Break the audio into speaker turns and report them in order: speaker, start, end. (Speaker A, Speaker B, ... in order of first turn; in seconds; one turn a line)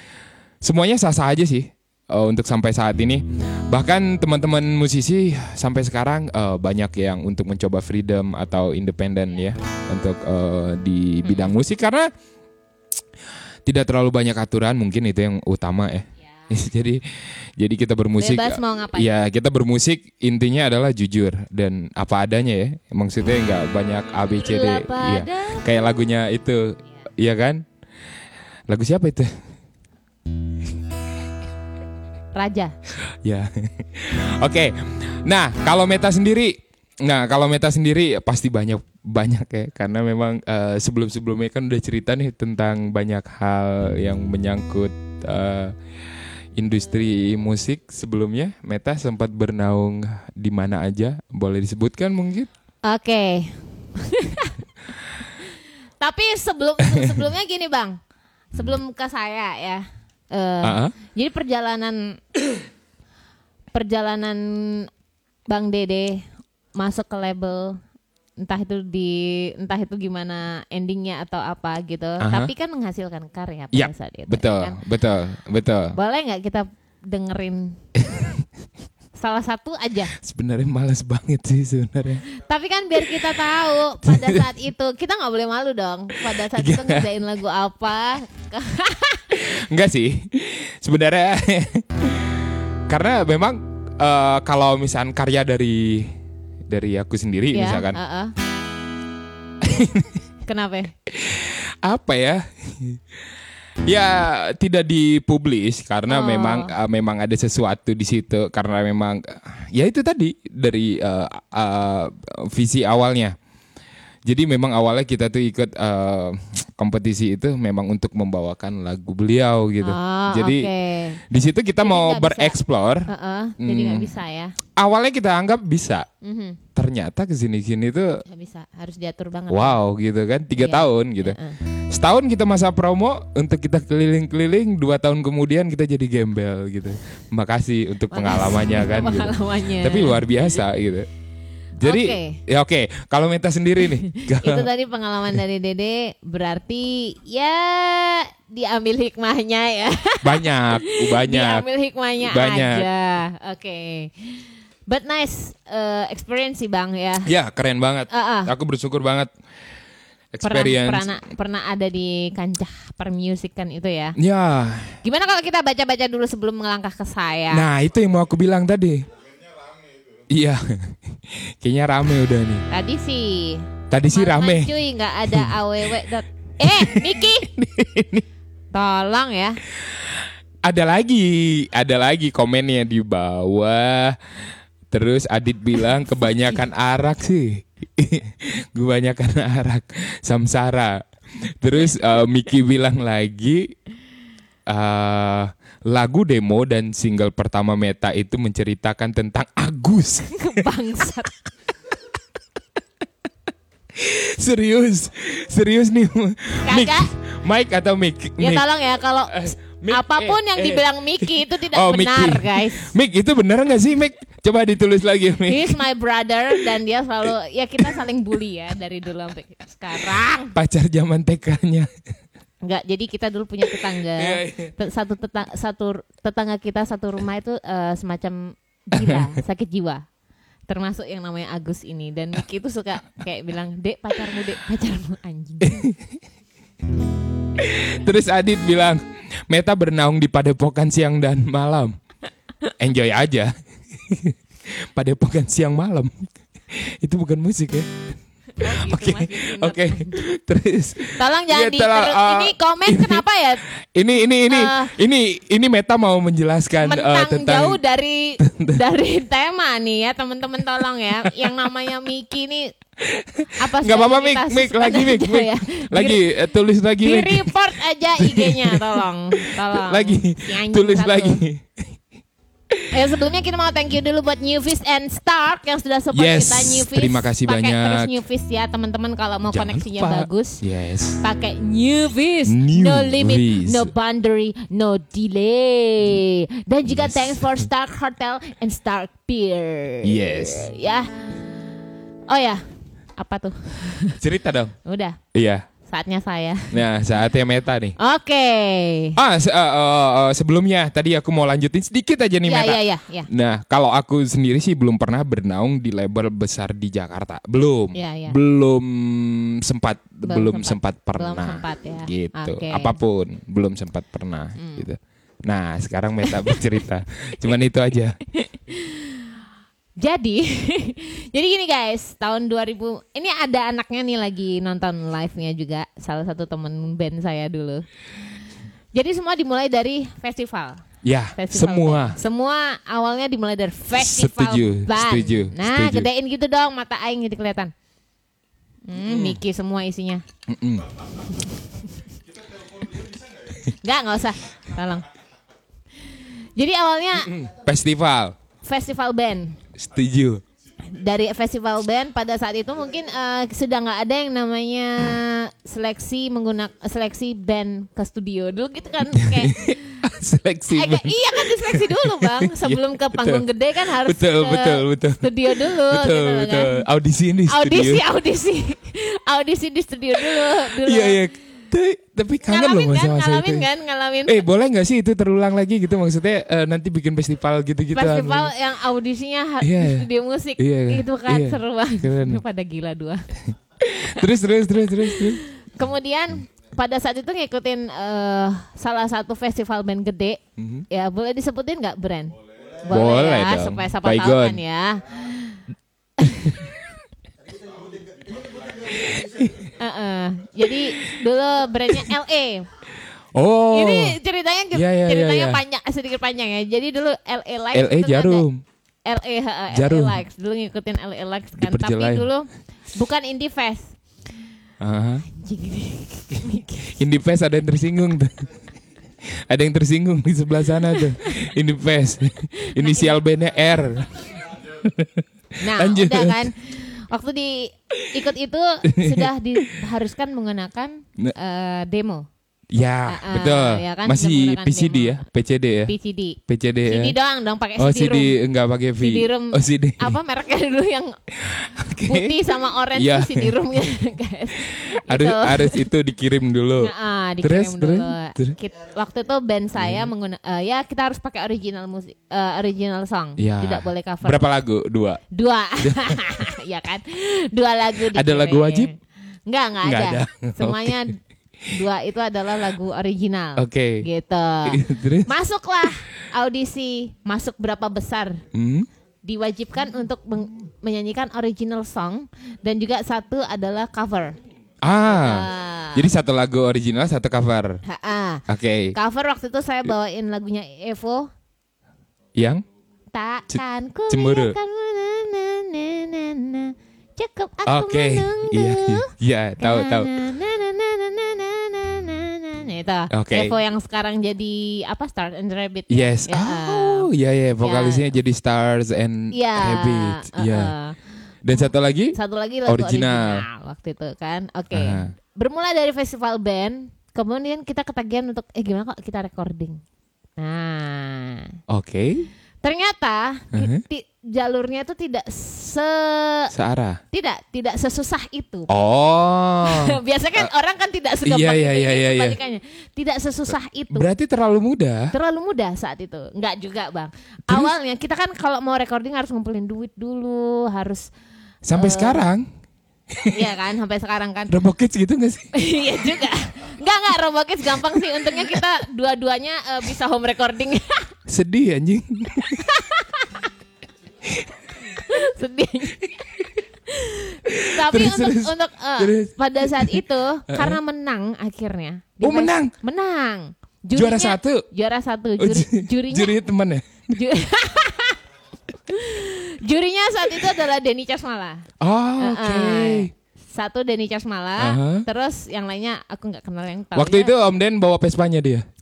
Speaker A: 0.6-12.1
Speaker B: 11.2-11.5
Speaker A: 13.7-17.0
Speaker A: 17.6-27.6
Speaker B: 18.2-19.1
Speaker B: 24.3-25.7
Speaker A: 28.7-29.3
Speaker B: 32.3-32.7
Speaker A: 33.1-45.7
Speaker A: 46.5-52.5
Speaker B: 52.8-54.6
Speaker B: 55.2-58.0
Speaker A: 56.8-57.2
Speaker B: 58.5-62.2
Speaker A: 60.6-60.9
Speaker B: 63.7-64.9
Speaker B: 65.5-66.2
Speaker B: 66.8-67.8
Speaker B: 68.4-74.8
Speaker A: 72.2-72.5
Speaker A: 73.7-76.0
Speaker B: 75.9-77.8
Speaker A: 78.0-78.4
Speaker B: 79.2-80.1
Speaker A: 80.2-82.2
Speaker B: 82.3-89.5
Speaker A: 84.0-84.5
Speaker A: 86.3-87.1
Speaker A: 89.4-96.1
Speaker A: 96.7-98.0
Speaker B: 97.5-98.3
Speaker A: 99.6-100.2
Speaker B: 100.5-100.9
Speaker A: 101.1-103.0
Speaker A: 103.8-113.3
Speaker B: 106.1-106.7
Speaker A: 114.2-120.7
Speaker B: 119.8-121.2
Speaker A: 121.3-123.1
Speaker B: 121.8-124.5
Speaker A: 123.6-124.1
Speaker A: 124.8-126.1
Speaker B: 126.2-126.6
Speaker A: 126.7-128.2
Speaker B: 128.2-129.8
Speaker A: 129.5-131.4
Speaker B: 130.6-131.6
Speaker A: 131.9-141.1
Speaker B: 138.1-140.2
Speaker A: 141.8-144.7
Speaker B: 141.8-142.4
Speaker B: 143.8-157.3
Speaker A: 150.2-151.7
Speaker A: 152.2-152.9
Speaker A: 157.2-159.3
Speaker B: 158.1-158.5
Speaker A: 160.3-161.2
Speaker B: 160.4-164.2
Speaker A: 164.2-165.0
Speaker B: 165.0-167.7
Speaker A: 167.5-169.1
Speaker A: 170.3-172.7
Speaker B: 172.7-177.5
Speaker A: 173.9-174.8
Speaker A: 175.3-175.5
Speaker A: 176.6-178.2
Speaker B: 178.7-179.6
Speaker A: 179.8-184.2
Speaker A: 184.9-193.7
Speaker A: 194.7-200.6
Speaker B: 200.3-201.5
Speaker A: 203.9-208.7
Speaker B: 206.7-207.1
Speaker B: 208.4-212.9
Speaker A: 209.3-215.8
Speaker B: 215.5-220.6
Speaker A: 220.5-221.9
Speaker B: 222.6-230.0
Speaker A: 223.7-224.7
Speaker A: 228.9-229.3
Speaker B: 230.7-235.9
Speaker A: 235.6-236.0
Speaker A: 237.5-241.9
Speaker A: 242.8-248.0
Speaker B: 248.6-250.2
Speaker A: 248.6-253.2
Speaker B: 251.1-253.6
Speaker A: 253.9-257.8
Speaker B: 254.5-254.9
Speaker B: 256.8-262.7
Speaker A: 258.4-258.8
Speaker A: 263.0-267.5
Speaker B: 263.6-266.2
Speaker B: 267.0-271.4
Speaker A: 268.2-271.8
Speaker B: 272.9-280.6
Speaker A: 276.1-278.1
Speaker A: 279.5-281.2
Speaker B: 281.2-291.1
Speaker A: 282.5-283.9
Speaker A: 286.9-287.7
Speaker A: 290.0-290.7
Speaker B: 292.3-292.6
Speaker B: 293.2-294.2
Speaker A: 294.2-294.7
Speaker B: 294.8-295.2
Speaker A: 295.3-295.7
Speaker B: 295.9-296.8
Speaker A: 296.7-297.9
Speaker B: 298.0-299.2
Speaker A: 299.1-318.2
Speaker B: 302.4-303.3
Speaker B: 307.9-308.4
Speaker B: 310.2-312.9
Speaker B: 314.6-314.9
Speaker B: 316.2-316.7
Speaker B: 318.3-319.3
Speaker B: 320.0-327.8
Speaker B: 328.9-330.8
Speaker A: 331.0-332.2
Speaker B: 331.3-337.7
Speaker A: 333.9-336.1
Speaker B: 338.9-340.2
Speaker A: 338.9-339.4
Speaker A: 340.5-341.2
Speaker B: 343.6-345.1
Speaker B: 346.1-347.4
Speaker A: 347.2-348.4
Speaker B: 348.6-349.6
Speaker A: 349.8-350.4
Speaker B: 350.9-360.0
Speaker A: 359.1-368.0
Speaker B: 360.7-366.8
Speaker B: 367.5-371.2
Speaker A: 370.2-373.7
Speaker B: 372.5-374.4
Speaker A: 374.2-378.5
Speaker B: 377.9-383.2
Speaker A: 379.6-382.4
Speaker A: 383.8-385.4
Speaker B: 383.9-384.2
Speaker B: 385.0-395.6
Speaker A: 390.6-390.8
Speaker A: 392.9-394.6
Speaker B: 396.2-396.7
Speaker A: 398.8-399.6
Speaker B: 399.8-402.7
Speaker A: 403.3-404.2
Speaker B: 403.7-408.4
Speaker A: 404.7-405.6
Speaker A: 407.7-408.6
Speaker B: 409.1-414.0
Speaker A: 409.7-410.2
Speaker A: 411.6-412.3
Speaker A: 414.8-415.2
Speaker B: 415.3-417.0
Speaker A: 416.9-418.5
Speaker A: 419.2-426.5
Speaker B: 420.9-421.5
Speaker B: 422.6-423.2
Speaker B: 425.6-432.2
Speaker A: 428.9-429.3
Speaker A: 432.7-435.9
Speaker B: 433.1-435.2
Speaker B: 435.9-438.4
Speaker A: 436.5-437.1
Speaker A: 437.8-440.1
Speaker B: 439.0-441.1
Speaker A: 441.4-443.6
Speaker B: 442.0-445.9
Speaker A: 445.1-448.6
Speaker B: 446.8-454.4
Speaker A: 449.8-450.1
Speaker A: 453.4-455.2
Speaker B: 455.3-458.9
Speaker A: 455.8-456.5
Speaker A: 458.1-458.9
Speaker B: 459.5-468.4
Speaker A: 459.8-461.1
Speaker A: 463.6-464.1
Speaker A: 464.6-465.3
Speaker A: 468.5-468.9
Speaker B: 469.2-474.4
Speaker A: 474.8-477.8
Speaker B: 475.1-476.1
Speaker B: 477.8-481.3
Speaker A: 478.5-478.9
Speaker A: 482.3-482.6
Speaker B: 483.1-497.1
Speaker A: 483.5-484.6
Speaker A: 487.6-490.2
Speaker A: 493.1-493.5
Speaker A: 495.9-500.7
Speaker B: 497.6-498.1
Speaker B: 499.3-501.0
Speaker A: 501.4-502.1
Speaker B: 501.5-509.8
Speaker A: 502.7-503.4
Speaker A: 504.7-505.1
Speaker B: 510.4-511.6
Speaker A: 511.7-512.3
Speaker B: 512.6-516.5
Speaker A: 513.5-513.8
Speaker A: 516.5-517.0
Speaker B: 517.1-518.7
Speaker A: 518.7-520.5
Speaker B: 519.6-524.1
Speaker A: 521.2-522.4
Speaker A: 523.9-525.1
Speaker B: 525.1-531.1
Speaker A: 531.6-532.5
Speaker B: 531.7-532.2
Speaker B: 533.2-534.6
Speaker A: 534.5-535.5
Speaker B: 535.5-541.1
Speaker A: 541.3-542.7
Speaker B: 542.4-543.5
Speaker B: 544.9-546.3
Speaker B: 546.9-556.4
Speaker A: 547.5-550.8
Speaker A: 552.2-552.7
Speaker A: 553.9-554.6
Speaker A: 555.4-557.2
Speaker B: 557.1-558.2
Speaker B: 558.9-561.6
Speaker A: 561.8-563.1
Speaker B: 562.2-567.4
Speaker A: 564.6-565.0
Speaker A: 566.9-568.6